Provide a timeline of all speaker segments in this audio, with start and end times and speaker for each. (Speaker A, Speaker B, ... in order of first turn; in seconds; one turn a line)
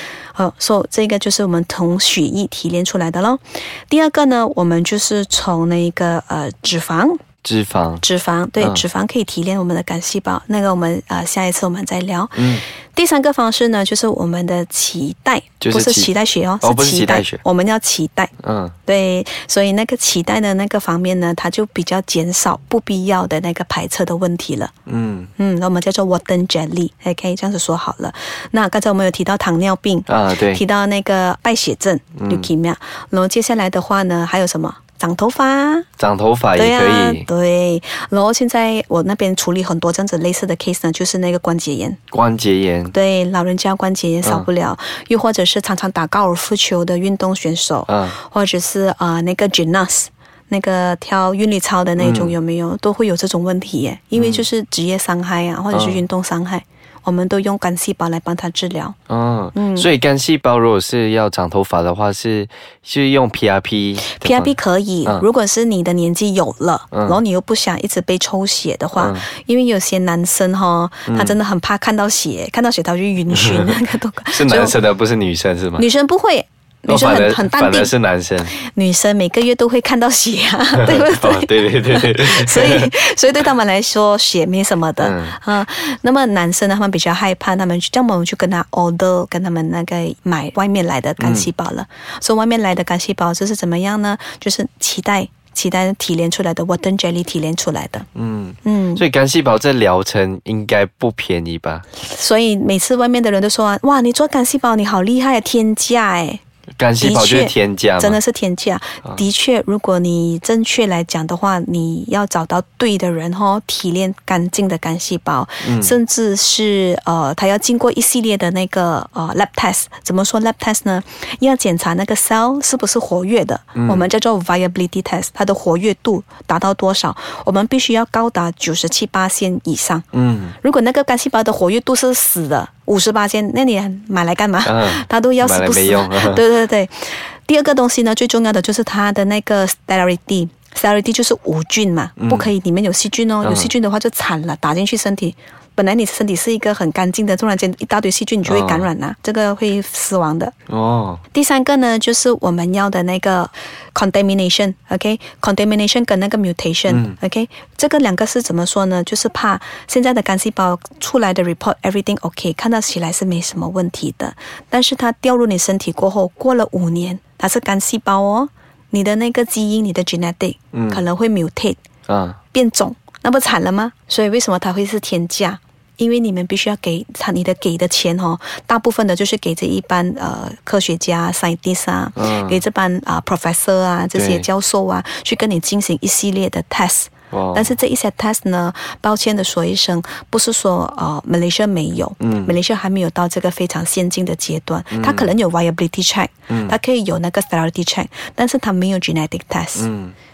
Speaker A: 0.3-7.2
Speaker B: 7.4-8.0
Speaker A: 8.0-18.3
Speaker B: 8.6-8.8
Speaker B: 12.3-12.6
Speaker B: 15.6-17.4
Speaker B: 18.4-18.7
Speaker A: 18.9-24.7
Speaker B: 24.9-25.3
Speaker A: 25.4-35.9
Speaker B: 30.1-30.6
Speaker B: 32.1-32.5
Speaker B: 36.0-37.3
Speaker A: 36.5-42.0
Speaker B: 42.1-42.9
Speaker A: 42.9-59.0
Speaker B: 44.2-44.5
Speaker B: 47.9-48.1
Speaker B: 52.0-52.4
Speaker B: 54.1-54.4
Speaker B: 55.7-56.0
Speaker B: 59.1-64.5
Speaker A: 59.5-59.9
Speaker A: 64.1-74.8
Speaker B: 66.9-67.2
Speaker B: 69.0-69.2
Speaker B: 71.1-71.4
Speaker B: 73.3-75.8
Speaker A: 75.8-77.9
Speaker B: 76.9-78.5
Speaker A: 78.5-98.1
Speaker B: 80.8-82.9
Speaker B: 85.0-85.4
Speaker B: 91.2-91.5
Speaker B: 98.1-101.8
Speaker A: 98.6-99.0
Speaker A: 102.0-106.4
Speaker B: 106.8-108.2
Speaker A: 107.0-130.1
Speaker B: 115.6-116.0
Speaker B: 123.8-124.1
Speaker B: 130.1-130.5
Speaker A: 130.6-150.5
Speaker B: 134.6-136.4
Speaker B: 142.2-142.5
Speaker B: 143.4-143.7
Speaker B: 148.4-148.9
Speaker B: 150.7-151.2
Speaker A: 151.3-171.8
Speaker B: 156.9-157.2
Speaker B: 170.7-171.0
Speaker B: 172.1-172.4
Speaker A: 172.5-199.9
Speaker B: 182.2-182.6
Speaker B: 184.1-184.5
Speaker B: 187.3-187.8
Speaker B: 192.2-192.6
Speaker B: 194.9-195.3
Speaker B: 196.5-196.8
Speaker B: 199.7-200.1